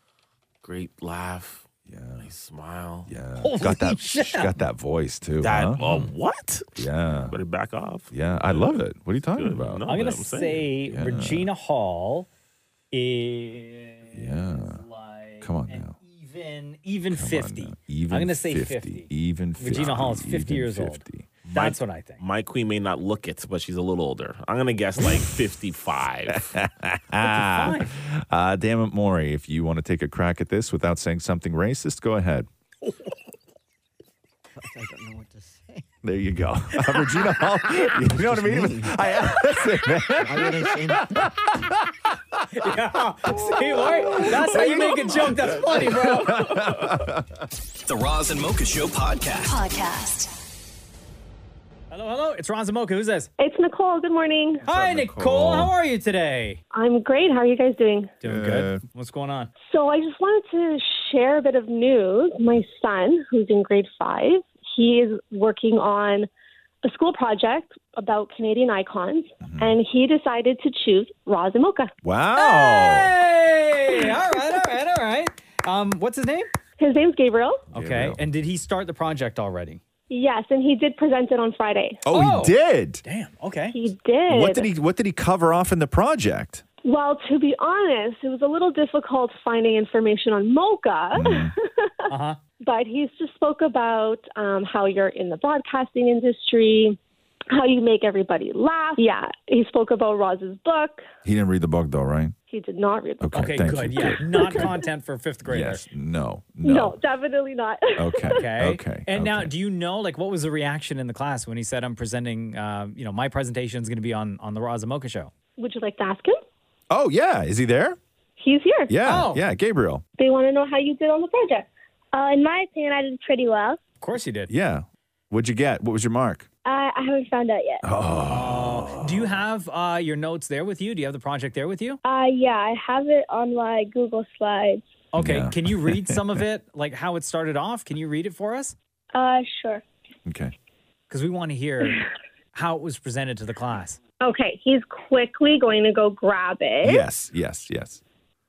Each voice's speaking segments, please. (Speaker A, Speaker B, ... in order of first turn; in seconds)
Speaker A: 0.6-1.7, 2.2-3.1, 5.4-6.7, 7.3-8.8, 9.3-10.7, 21.5-26.5
Speaker B: 1.9-2.3, 3.1-6.1, 6.8-7.4, 8.1-9.9, 10.9-11.5, 14.1-14.8, 15.4-15.9, 17.1-21.4, 26.5-32.5, 36.0-41.7, 43.3-47.3, 54.6-55.7, 58.2-58.8, 69.4-69.8, 72.0-73.1, 77.7-78.2, 82.0-83.0, 84.3-86.6, 91.1-91.5, 101.2-102.3, 103.2-104.7, 105.4-107.0, 108.0-109.5, 116.9-118.0, 118.9-120.0, 124.5-126.5, 127.8-129.4, 135.2-136.4, 140.2-140.5, 146.8-148.0
Speaker C: 3.4-4.5, 9.8-12.3, 12.9-22.2, 27.2-27.9, 42.5-46.5, 51.9-53.3, 54.6-56.6, 58.2-59.5, 72.3-76.5, 77.7-79.8, 82.1-83.8, 92.1-92.4, 103.3-105.8, 108.3-115.3, 119.0-119.4, 124.0-124.5, 128.3-132.0, 135.1-138.7, 141.1-142.0, 142.5-144.0
Speaker D: 34.5-35.9, 38.1-39.0, 40.2-41.2
Speaker E: 47.9-50.3
Speaker F: 53.4-54.6, 56.7-58.1, 59.6-66.3, 66.8-71.9, 76.8-77.6, 80.1-82.0, 83.7-84.7, 86.8-91.9, 92.6-97.0, 97.5-101.0, 102.5-103.5, 106.6-108.3, 115.6-116.4, 118.4-118.9, 120.2-121.7, 144.2-147.0
Speaker G: 122.1-123.8, 126.7-127.8, 132.0-134.8, 139.1-139.8